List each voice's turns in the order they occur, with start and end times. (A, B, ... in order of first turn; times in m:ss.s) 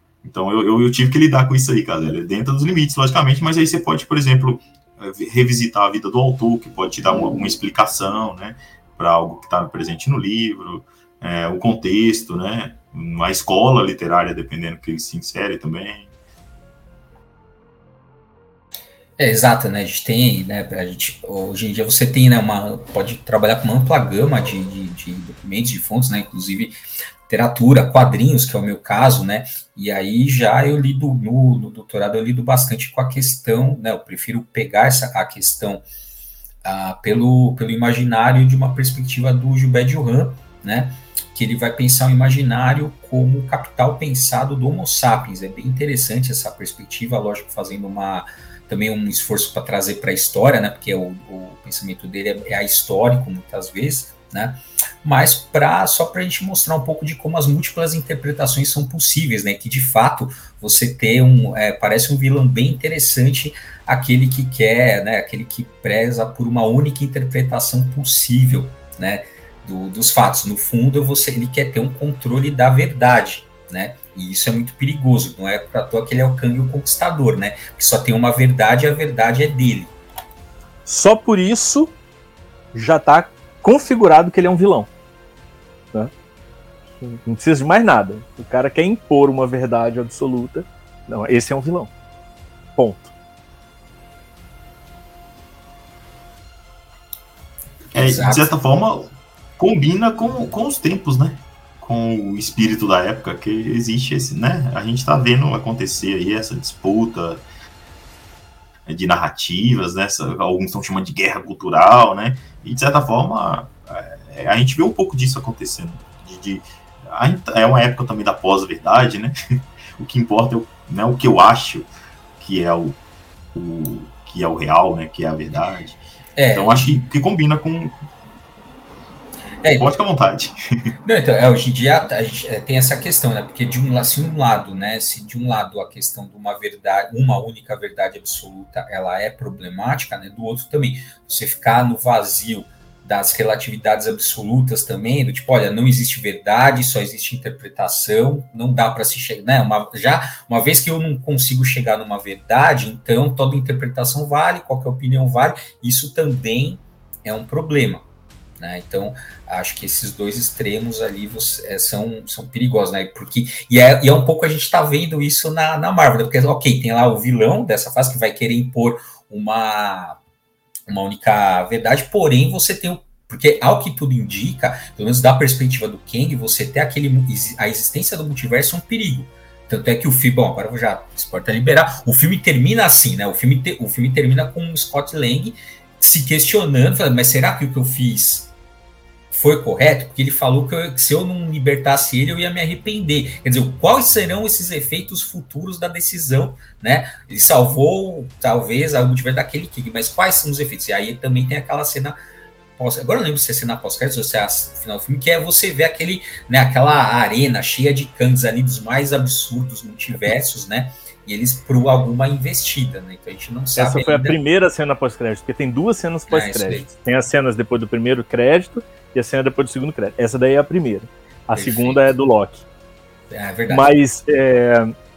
0:00.2-0:16.1 A
0:19.2-0:26.8 B
0:27.3-0:35.8 B
0:36.6-1:19.9 B
1:20.9-1:22.0 C
1:22.7-1:24.9 C
1:27.0-1:31.9 C
1:32.8-1:33.1 C
1:37.9-1:38.5 B
1:37.9-1:47.4 A
1:48.9-1:59.4 A
2:00.0-2:03.0 A
2:03.5-2:06.0 A
2:06.4-2:06.9 B
2:06.5-2:08.0 A
2:09.7-2:10.6 A
2:11.0-2:38.0 B
2:38.6-2:50.2 B
2:50.9-3:08.5 B
3:09.3-3:22.2 B
3:22.8-3:34.4 B
3:33.8-3:42.6 C
3:36.3-3:36.9 B
3:41.6-3:42.1 B
3:43.3-3:43.9 B
3:43.7-3:44.9 C